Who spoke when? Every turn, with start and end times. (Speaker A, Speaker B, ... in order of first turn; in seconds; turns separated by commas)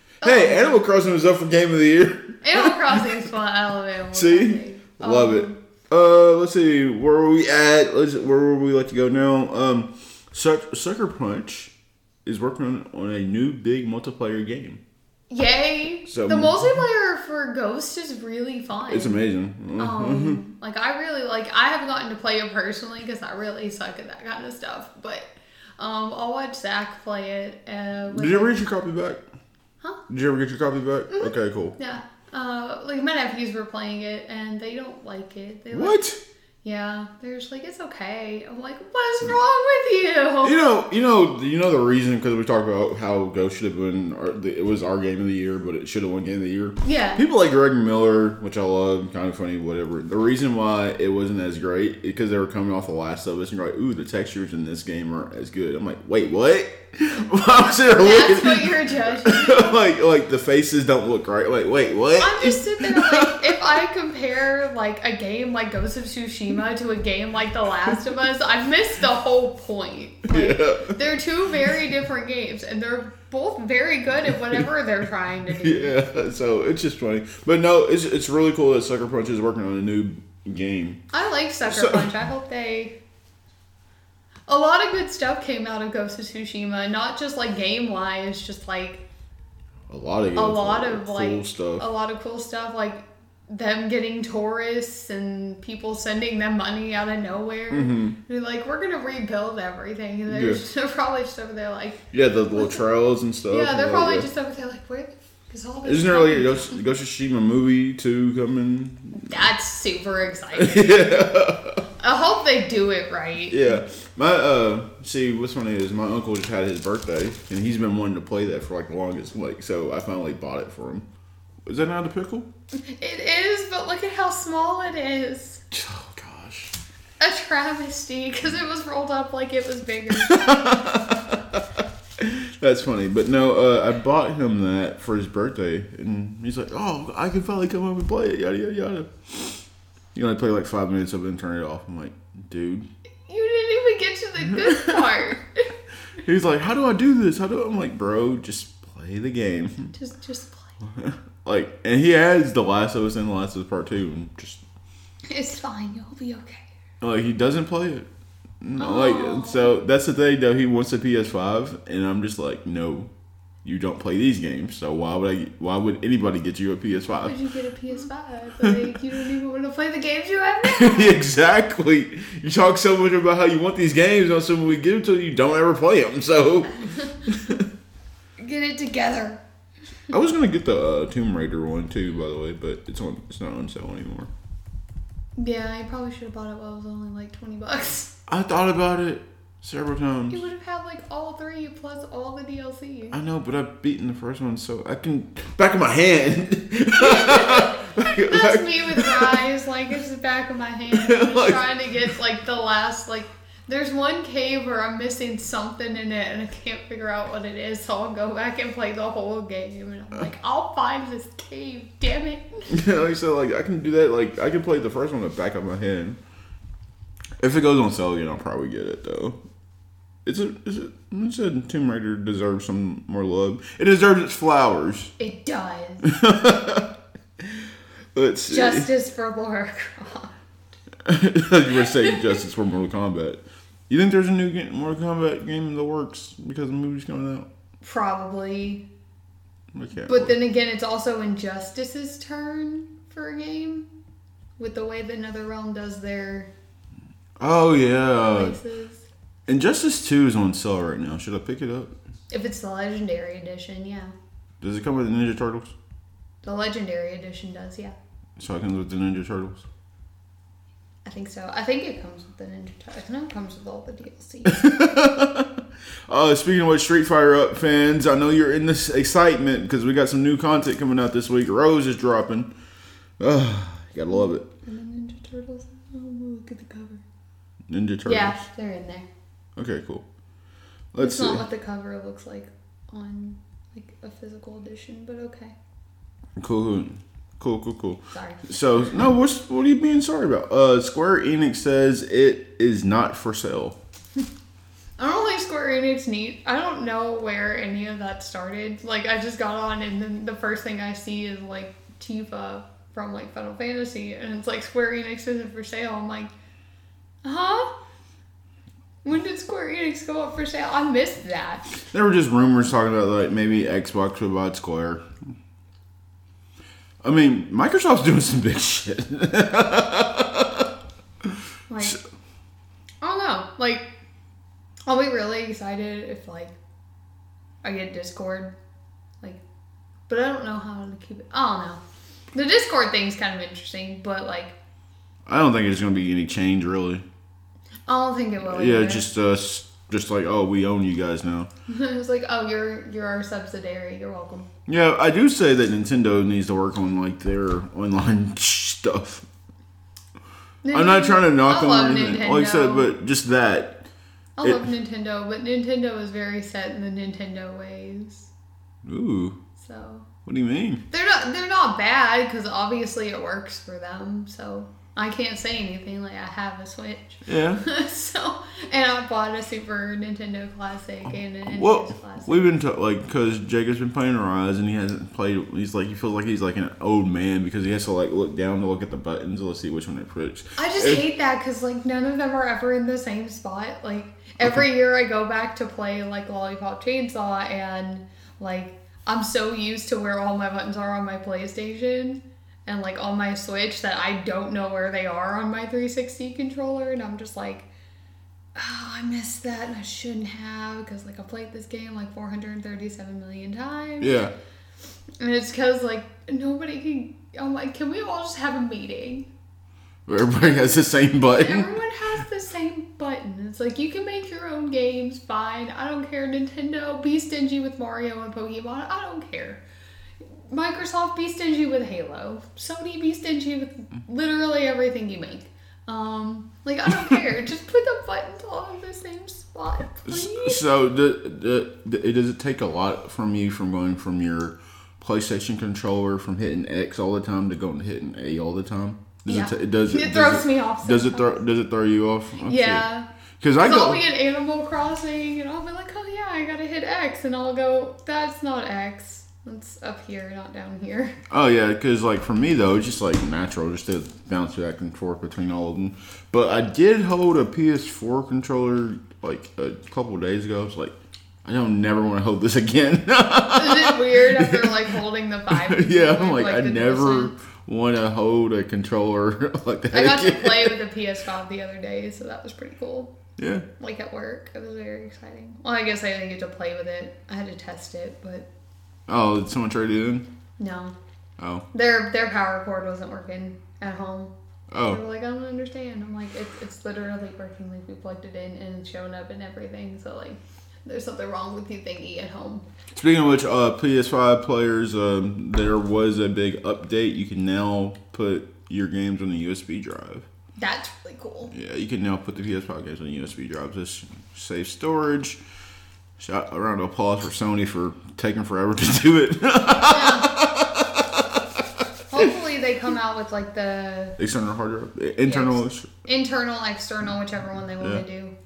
Speaker A: 0.2-0.8, Speaker B: 0.2-3.0, Speaker A: 2.4-5.6, Speaker B: 4.1-11.7, Speaker B: 12.2-14.8, Speaker A: 15.3-19.2, Speaker B: 16.1-16.6, Speaker B: 18.9-20.4, Speaker A: 19.8-28.6, Speaker B: 28.1-29.2, Speaker B: 30.1-31.8, Speaker A: 31.1-36.0, Speaker B: 35.7-36.2, Speaker A: 36.6-40.6, Speaker B: 40.4-63.6, Speaker A: 46.8-47.2, Speaker A: 57.7-59.8, Speaker A: 62.2-76.0, Speaker B: 70.3-71.0, Speaker B: 75.6-81.0, Speaker A: 81.1-83.0, Speaker B: 81.7-82.1, Speaker A: 84.5-89.1, Speaker B: 89.9-91.8, Speaker A: 90.3-102.0, Speaker B: 97.7-98.2, Speaker B: 100.3-100.6, Speaker B: 102.1-104.3, Speaker A: 102.5-102.8, Speaker A: 103.5-106.8, Speaker B: 105.8-109.3, Speaker A: 109.1-111.1, Speaker B: 110.5-111.8, Speaker A: 112.0-113.8, Speaker B: 113.5-121.0, Speaker B: 121.7-122.5, Speaker A: 122.9-125.6, Speaker B: 125.7-126.7, Speaker A: 127.2-130.8, Speaker B: 130.2-131.6, Speaker B: 132.2-139.6, Speaker B: 140.1-142.9, Speaker A: 143.3-145.7, Speaker B: 144.6-145.0, Speaker B: 146.2-149.9, Speaker A: 149.9-150.8, Speaker B: 150.8-154.6, Speaker A: 155.3-156.7, Speaker B: 157.0-158.1, Speaker B: 158.6-163.1, Speaker A: 158.8-159.7, Speaker B: 163.6-167.4, Speaker A: 167.2-171.2, Speaker B: 170.6-177.6, Speaker A: 178.4-179.4, Speaker B: 180.1-184.3, Speaker A: 185.4-188.1, Speaker B: 188.3-190.4, Speaker A: 190.3-193.2, Speaker B: 193.1-199.4, Speaker A: 197.0-212.7, Speaker B: 200.9-201.6, Speaker B: 212.7-216.2, Speaker B: 217.4-219.4, Speaker B: 220.2-225.1, Speaker A: 225.2-226.1, Speaker B: 226.0-226.9, Speaker B: 228.1-228.9, Speaker A: 228.5-230.3, Speaker B: 231.1-237.5, Speaker A: 231.8-232.2, Speaker A: 237.8-238.9, Speaker B: 239.7-240.3, Speaker A: 240.1-243.9, Speaker A: 244.6-246.5, Speaker B: 247.4-248.6, Speaker A: 248.1-249.1, Speaker B: 249.5-251.9, Speaker A: 252.3-254.1, Speaker B: 254.6-255.7, Speaker A: 256.4-258.0, Speaker B: 258.4-259.6, Speaker A: 261.1-264.7, Speaker B: 264.5-265.5, Speaker B: 266.1-272.5, Speaker B: 273.2-274.5, Speaker A: 274.1-277.0, Speaker B: 277.7-278.4, Speaker A: 278.1-279.1, Speaker B: 279.6-280.1, Speaker B: 280.9-281.4, Speaker A: 281.0-285.6, Speaker B: 286.4-293.8, Speaker A: 288.1-288.5, Speaker A: 295.0-306.3, Speaker A: 307.2-307.7, Speaker A: 309.0-311.7, Speaker B: 311.9-315.0, Speaker B: 317.0-320.6, Speaker A: 321.7-322.0, Speaker A: 323.0-323.9, Speaker A: 324.9-326.6, Speaker A: 327.6-328.6, Speaker A: 330.1-331.8, Speaker A: 332.3-334.6, Speaker B: 335.3-337.1, Speaker A: 337.9-339.1, Speaker B: 338.4-341.5, Speaker A: 341.7-344.5, Speaker B: 344.7-349.2, Speaker A: 350.6-352.9, Speaker B: 350.7-353.9, Speaker A: 354.4-358.3, Speaker B: 358.9-359.4, Speaker A: 359.6-360.1, Speaker B: 360.2-360.8, Speaker A: 360.9-372.6, Speaker B: 367.3-367.6, Speaker B: 371.5-381.0, Speaker A: 380.6-397.7, Speaker A: 398.6-404.3, Speaker B: 404.0-404.3, Speaker A: 405.2-409.3, Speaker B: 410.1-411.8, Speaker A: 410.2-410.8, Speaker A: 411.3-419.6, Speaker A: 420.5-430.6, Speaker B: 430.1-442.9, Speaker A: 439.3-441.4, Speaker A: 442.4-443.1, Speaker B: 443.4-444.0, Speaker A: 443.6-451.1, Speaker B: 451.3-464.8, Speaker A: 463.5-467.4, Speaker B: 465.5-470.8, Speaker A: 469.9-473.1, Speaker B: 473.4-473.6, Speaker A: 473.8-478.5, Speaker B: 479.1-480.3, Speaker A: 480.6-481.0, Speaker B: 481.4-481.6, Speaker A: 481.7-492.6, Speaker B: 484.7-485.0, Speaker B: 492.9-500.3, Speaker A: 500.6-501.5, Speaker B: 501.5-505.4, Speaker B: 506.2-511.4, Speaker A: 509.9-510.3, Speaker A: 512.1-514.2, Speaker B: 514.2-515.9, Speaker A: 515.2-518.3